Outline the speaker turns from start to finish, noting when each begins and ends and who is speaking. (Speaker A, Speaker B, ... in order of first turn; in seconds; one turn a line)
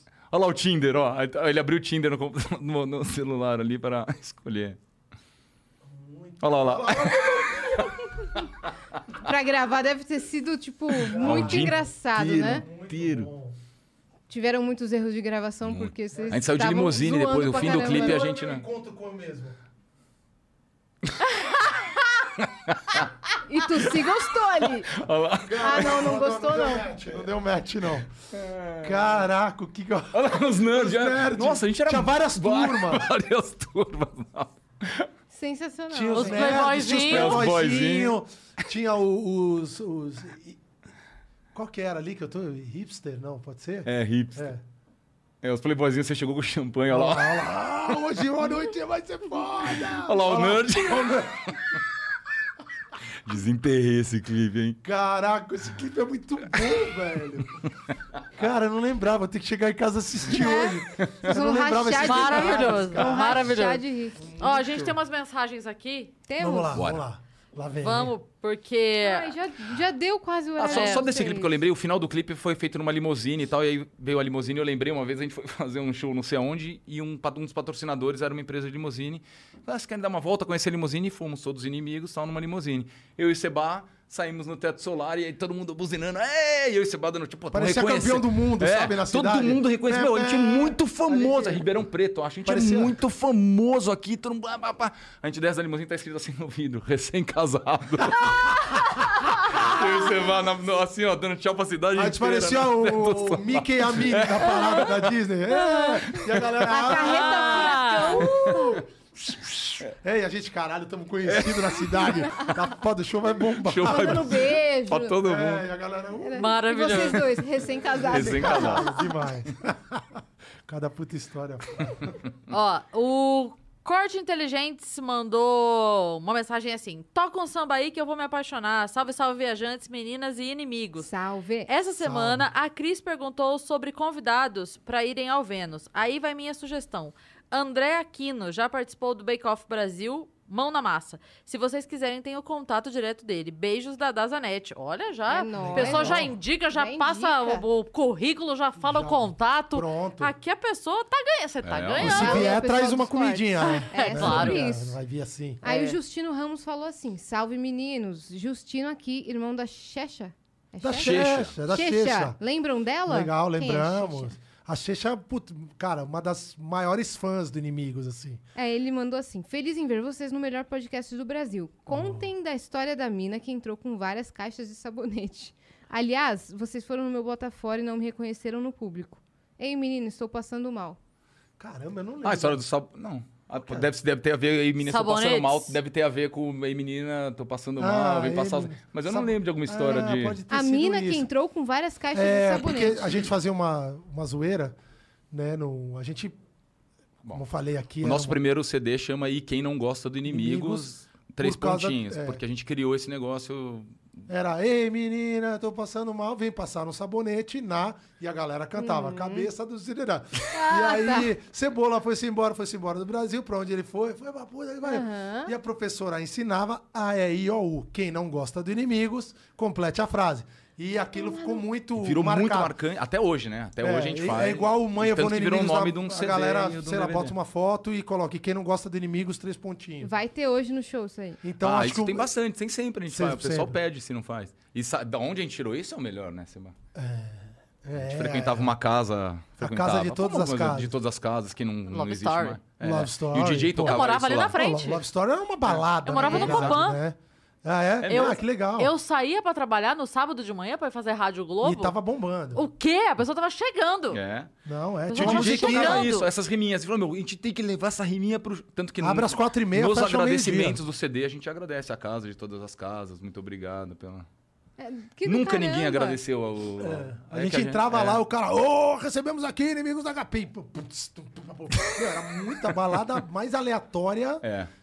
Speaker A: 0.3-4.8
Speaker B: 5.8-8.2
Speaker A: 6.4-8.5
Speaker C: 9.2-12.6
Speaker A: 10.9-13.3
Speaker B: 11.1-13.6
Speaker C: 14.3-18.2
Speaker A: 15.6-18.6
Speaker B: 17.5-19.6
Speaker A: 22.4-26.2
Speaker C: 23.5-24.9
Speaker B: 25.4-28.1
Speaker C: 25.6-26.9
Speaker A: 28.3-29.1
Speaker B: 28.8-33.1
Speaker A: 30.1-35.1
Speaker C: 35.3-36.7
Speaker B: 35.9-40.6
Speaker D: 36.1-37.4
Speaker A: 36.9-38.1
Speaker B: 41.5-44.6
Speaker A: 43.8-44.5
Speaker A: 45.4-47.4
Speaker B: 46.9-51.5
Speaker A: 49.9-51.5
Speaker A: 53.2-54.8
Speaker B: 54.8-57.6
Speaker B: 58.3-63.5
Speaker C: 60.3-64.2
Speaker A: 61.0-61.4
Speaker D: 61.9-63.8
Speaker B: 64.2-65.0
Speaker D: 64.4-66.1
Speaker C: 66.3-66.8
Speaker B: 66.4-68.1
Speaker A: 66.7-67.0
Speaker D: 67.8-69.3
Speaker C: 69.0-71.5
Speaker A: 70.6-105.0
Speaker D: 70.7-71.0
Speaker B: 87.5-91.7
Speaker B: 92.4-93.0
Speaker B: 99.5-99.8
Speaker B: 101.9-107.9
Speaker C: 105.5-106.1
Speaker A: 106.1-106.5
Speaker C: 106.6-108.8
Speaker D: 106.9-108.3
Speaker A: 108.4-108.8
Speaker A: 109.3-109.9
Speaker B: 109.8-114.5
Speaker A: 111.2-112.2
Speaker C: 112.2-112.5
Speaker A: 113.6-115.7
Speaker C: 113.8-115.2
Speaker B: 115.2-117.1
Speaker C: 116.2-119.0
Speaker D: 116.4-117.2
Speaker B: 117.7-122.1
Speaker A: 118.1-118.9
Speaker D: 122.5-131.1
Speaker C: 131.0-131.7
Speaker D: 131.7-152.6
Speaker B: 132.0-132.5
Speaker C: 145.3-147.6
Speaker B: 145.5-146.3
Speaker B: 148.8-150.3
Speaker A: 151.6-152.2
Speaker B: 152.0-155.6
Speaker C: 152.0-155.0
Speaker D: 153.6-154.6
Speaker C: 155.6-164.3
Speaker D: 155.6-156.0
Speaker B: 160.8-162.4
Speaker A: 161.0-161.5
Speaker B: 163.1-168.4
Speaker C: 168.6-181.0
Speaker B: 171.9-172.3
Speaker B: 181.6-182.6
Speaker A: 182.2-190.4
Speaker B: 183.6-183.9
Speaker D: 184.8-185.8
Speaker B: 187.8-191.3
Speaker C: 190.5-193.3
Speaker B: 192.1-194.8
Speaker B: 195.3-196.4
Speaker B: 197.3-198.4
Speaker A: 198.0-204.0
Speaker B: 200.3-202.4
Speaker B: 204.3-222.7
Speaker C: 208.8-209.5
Speaker C: 210.5-211.3
Speaker C: 214.8-215.5
Speaker C: 221.2-221.6
Speaker A: 222.0-227.3
Speaker B: 223.8-230.1
Speaker C: 230.0-231.4
Speaker B: 231.4-232.3
Speaker A: 231.6-236.7
Speaker B: 233.1-233.8
Speaker B: 236.9-238.8
Speaker A: 237.9-244.6
Speaker B: 239.6-240.9
Speaker D: 241.9-242.6
Speaker B: 242.8-244.0
Speaker D: 243.8-245.0
Speaker B: 244.5-248.9
Speaker D: 246.1-247.0
Speaker C: 246.2-246.8
Speaker A: 248.0-248.4
Speaker D: 248.1-251.9
Speaker B: 251.6-252.6
Speaker D: 252.5-254.2
Speaker A: 254.1-254.5
Speaker B: 254.6-256.1
Speaker D: 255.1-256.3
Speaker A: 255.2-264.2
Speaker B: 259.0-260.8
Speaker C: 264.8-266.2
Speaker A: 265.2-268.2
Speaker B: 266.8-274.4
Speaker A: 274.4-274.7